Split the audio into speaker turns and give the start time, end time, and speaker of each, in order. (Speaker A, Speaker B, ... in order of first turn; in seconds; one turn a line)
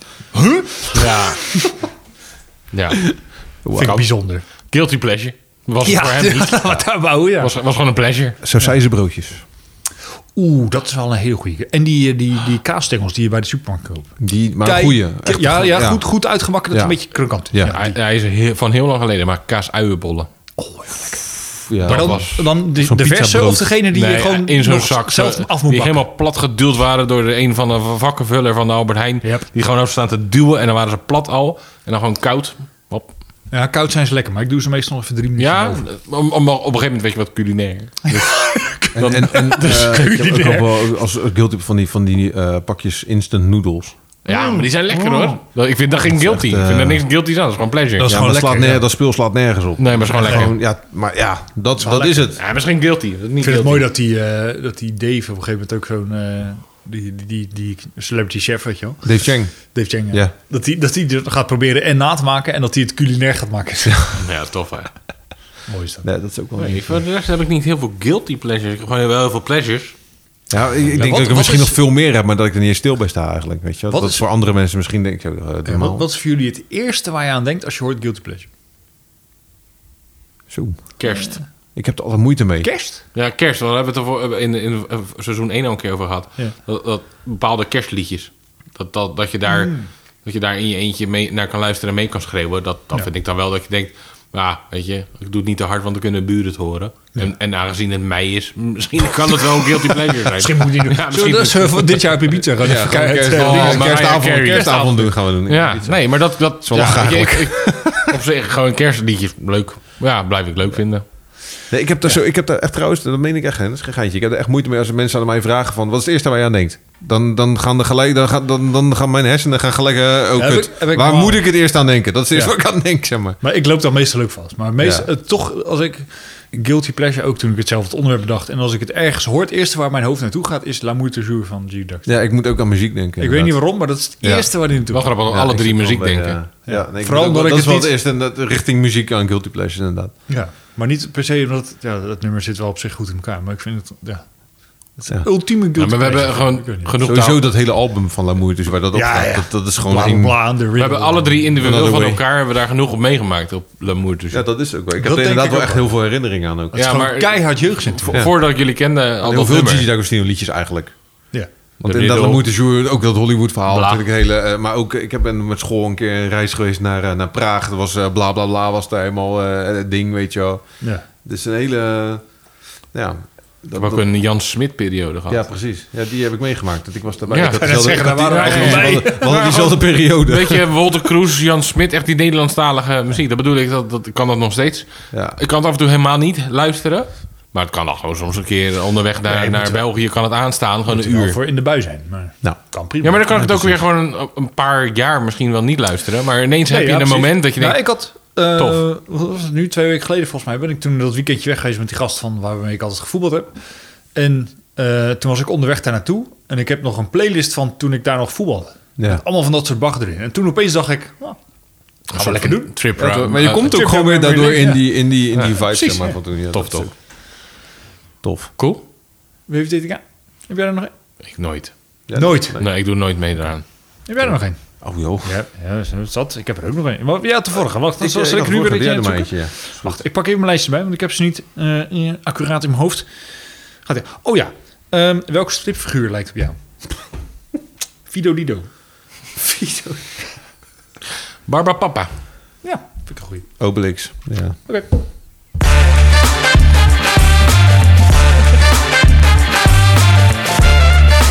Speaker A: 0.3-1.7
Speaker B: 0.9-1.4
Speaker B: 2.7-3.1
Speaker C: 3.6-4.0
Speaker A: 3.7-4.4
Speaker B: 4.7-8.4
Speaker A: 5.8-7.5
Speaker C: 8.4-9.4
Speaker A: 10.3-17.9
Speaker C: 14.2-17.8
Speaker B: 17.7-20.3
Speaker A: 20.6-26.1
Speaker C: 21.7-23.7
Speaker B: 21.8-22.5
Speaker B: 23.9-33.1
Speaker A: 29.2-29.5
Speaker A: 33.5-35.8
Speaker B: 35.4-40.2
Speaker A: 38.1-41.0
Speaker C: 38.9-43.9
Speaker B: 44.2-48.1
Speaker A: 44.3-45.2
Speaker C: 44.9-45.4
Speaker C: 46.0-47.0
Speaker A: 48.0-48.9
Speaker C: 48.0-52.4
Speaker B: 49.8-50.6
Speaker A: 50.1-50.5
Speaker A: 51.8-52.3
Speaker B: 52.3-53.9
Speaker A: 53.4-64.1
Speaker C: 59.0-60.3
Speaker B: 64.1-64.9
Speaker A: 65.7-66.1
Speaker C: 66.0-67.0
Speaker B: 66.6-69.9
Speaker C: 70.5-76.1
Speaker A: 70.9-71.8
Speaker A: 73.9-74.2
Speaker A: 75.6-78.5
Speaker C: 80.5-80.9
Speaker B: 81.0-81.4
Speaker A: 81.0-81.4
Speaker C: 81.7-82.7
Speaker A: 82.6-83.0
Speaker B: 83.1-111.0
Speaker A: 89.5-89.9
Speaker A: 100.3-105.2
Speaker C: 102.6-108.2
Speaker C: 111.7-123.4
Speaker A: 120.3-121.5
Speaker A: 122.3-122.5
Speaker A: 123.4-132.1
Speaker C: 124.8-125.1
Speaker C: 132.1-134.5
Speaker A: 133.2-135.2
Speaker B: 134.9-136.4
Speaker C: 135.3-140.1
Speaker A: 136.7-137.9
Speaker A: 140.3-144.2
Speaker A: 144.9-146.9
Speaker B: 145.7-147.5
Speaker C: 147.0-150.4
Speaker A: 148.9-151.5
Speaker B: 150.7-154.4
Speaker C: 151.6-152.2
Speaker C: 154.3-156.8
Speaker A: 155.0-155.9
Speaker A: 156.7-158.2
Speaker B: 156.7-159.9
Speaker C: 158.1-158.4
Speaker C: 159.2-160.9
Speaker B: 161.8-162.4
Speaker C: 161.8-170.6
Speaker B: 163.7-164.0
Speaker C: 171.2-172.2
Speaker C: 172.9-174.1
Speaker B: 173.8-175.4
Speaker C: 175.3-180.6
Speaker B: 177.3-179.0
Speaker A: 177.6-179.9
Speaker B: 180.2-191.4
Speaker C: 185.1-185.4
Speaker C: 189.2-189.8
Speaker A: 190.9-193.8
Speaker B: 193.0-197.9
Speaker A: 196.7-203.5
Speaker B: 198.5-198.8
Speaker A: 204.1-211.4
Speaker C: 209.0-209.2
Speaker A: 212.1-212.7
Speaker B: 212.1-213.8
Speaker C: 212.9-216.9
Speaker A: 213.6-216.2
Speaker B: 216.5-216.9
Speaker C: 218.2-218.5
Speaker B: 218.6-218.8
Speaker A: 219.5-220.9
Speaker B: 221.2-221.7
Speaker C: 222.1-222.7
Speaker A: 222.1-222.6
Speaker B: 222.5-223.6
Speaker A: 224.1-224.6
Speaker C: 224.2-225.3
Speaker A: 225.2-233.1
Speaker C: 228.0-230.0
Speaker A: 233.8-236.6
Speaker A: 238.1-238.7
Speaker C: 239.5-239.9
Speaker B: 241.5-242.1
Speaker A: 242.6-243.4
Speaker C: 243.6-244.6